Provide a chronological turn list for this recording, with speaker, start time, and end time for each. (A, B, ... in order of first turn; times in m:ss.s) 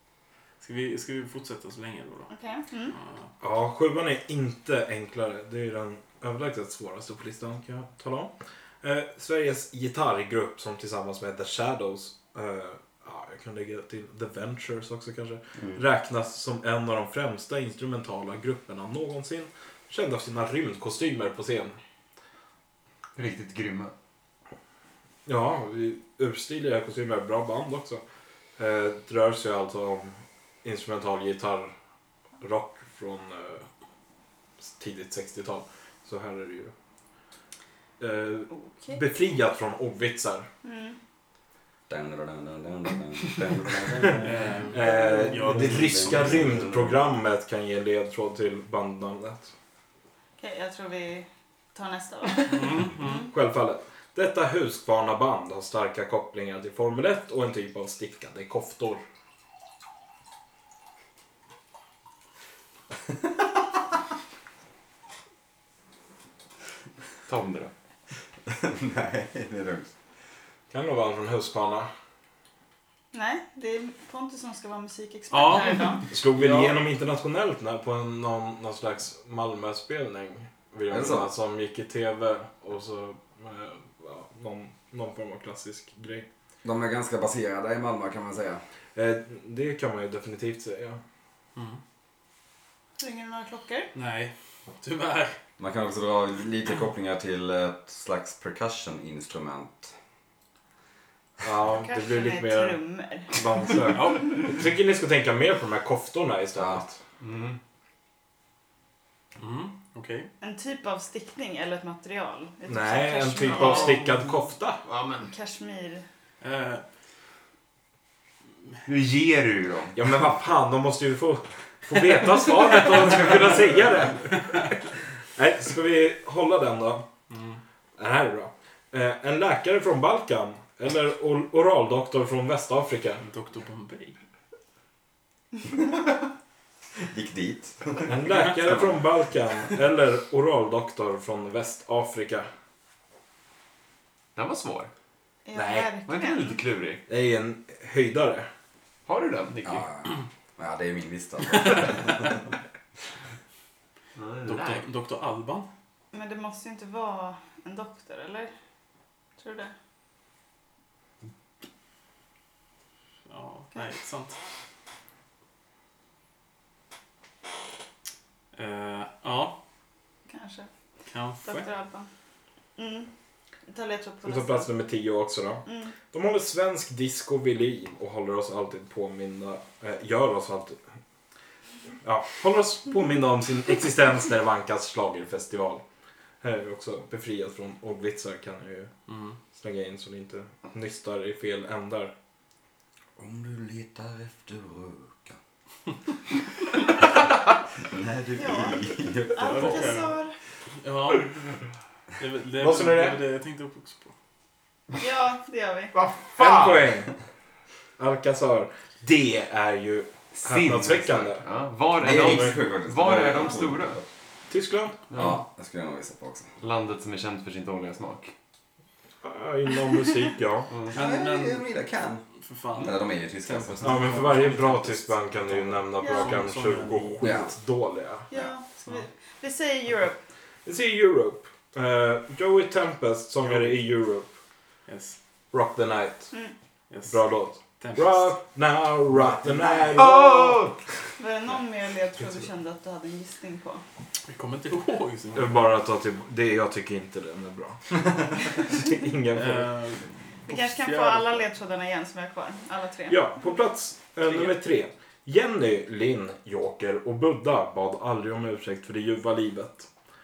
0:00.6-0:02.3 A
0:02.3-0:03.0 B
0:02.9-0:03.3 A
0:03.4-0:21.8 C
0:23.1-0:23.9 D
0:25.2-0:28.0 C
0:28.6-0:31.7 C
0:32.4-0:33.6 C
0:34.6-0:36.7 C
0:38.0-0:40.5 C
0:38.5-0:39.0 B
0:40.6-0:41.0 B
0:41.9-0:44.5 E
0:44.2-0:46.6 A
0:44.7-0:49.5 C
0:45.5-0:46.9 E
0:50.4-0:53.3 B
0:52.5-0:53.3 A
0:53.3-0:59.0 C
1:07.2-1:07.7 D
1:08.5-1:09.9 E
1:10.7-1:11.9 C
1:13.1-1:16.1 B
1:15.3-1:16.8 A
1:16.1-1:26.2 C
1:20.9-1:21.3 E
1:26.6-1:28.6 E
1:29.0-1:31.0 C
1:33.0-1:33.9 B
1:33.9-1:35.4 A
1:35.6-1:39.9 E
1:41.4-1:42.8 C
1:41.8-1:43.4 B
1:43.3-1:47.0 C
1:43.9-1:44.3 A
1:46.6-1:46.8 E
1:47.2-1:47.6 D
1:49.4-1:50.3 A
1:50.4-1:54.0 B
1:52.6-1:54.8 C
1:53.4-1:55.3 D
1:55.3-1:56.0 B
1:56.4-1:56.8 A
1:58.8-2:00.0 D
1:59.9-2:07.1 C
2:07.3-2:07.6 A
2:08.0-2:13.2 C
2:13.2-2:14.2 A
2:17.1-2:18.1 E
2:18.0-2:22.5 C
2:24.3-2:24.9 D
2:25.4-2:26.6 B
2:25.5-2:25.9 C
2:26.0-2:27.0 D
2:27.1-2:28.5 C
2:29.1-2:29.8 D
2:29.6-2:32.4 E
2:34.2-2:34.8 D
2:34.4-2:35.7 A
2:36.1-2:38.5 B
2:39.4-2:39.7 B
2:43.3-2:44.4 A
2:48.5-2:49.6 A
2:50.3-2:50.7 B
2:51.1-2:51.7 A
2:51.4-2:52.1 B
2:52.8-2:53.1 B
2:53.7-2:54.7 B
2:54.2-3:00.8 C
2:55.6-2:55.9 B
3:02.0-3:05.8 C
3:06.4-3:08.9 C
3:09.1-3:09.4 A
3:09.5-3:12.1 C
3:13.2-3:15.4 E
3:17.8-3:20.0 E
3:18.4-3:20.3 B
3:19.4-3:20.2 A
3:20.8-3:21.6 A
3:22.2-3:24.1 A
3:22.6-3:23.2 C
3:25.0-3:25.9 B
3:25.9-3:26.9 D
3:26.4-3:27.1 C
3:28.0-3:31.4 C
3:30.4-3:34.0 D
3:32.0-3:34.0 E
3:32.0-3:32.6 C
3:34.5-3:35.0 C
3:35.1-3:35.4 D
3:35.1-3:36.5 E
3:36.6-3:38.3 D
3:39.2-3:40.7 C
3:40.7-3:41.0 D
3:40.9-3:41.6 A
3:40.9-3:42.2 E
3:42.4-3:47.3 A
3:42.8-3:44.2 E
3:43.8-3:48.3 C
3:46.0-3:46.4 B
3:47.2-3:47.5 E
3:48.3-3:50.2 B
3:50.6-3:54.3 C
3:53.4-3:53.8 A
3:54.9-3:55.2 A
3:55.5-3:56.3 C
3:56.9-3:58.4 A
3:57.1-4:00.6 C
3:59.1-3:59.9 A
3:59.9-4:00.8 D
4:01.2-4:03.8 B
4:04.2-4:05.7 A
4:05.3-4:09.7 C
4:09.3-4:11.4 A
4:10.5-4:13.2 B
4:13.1-4:19.9 C
4:14.3-4:14.5 A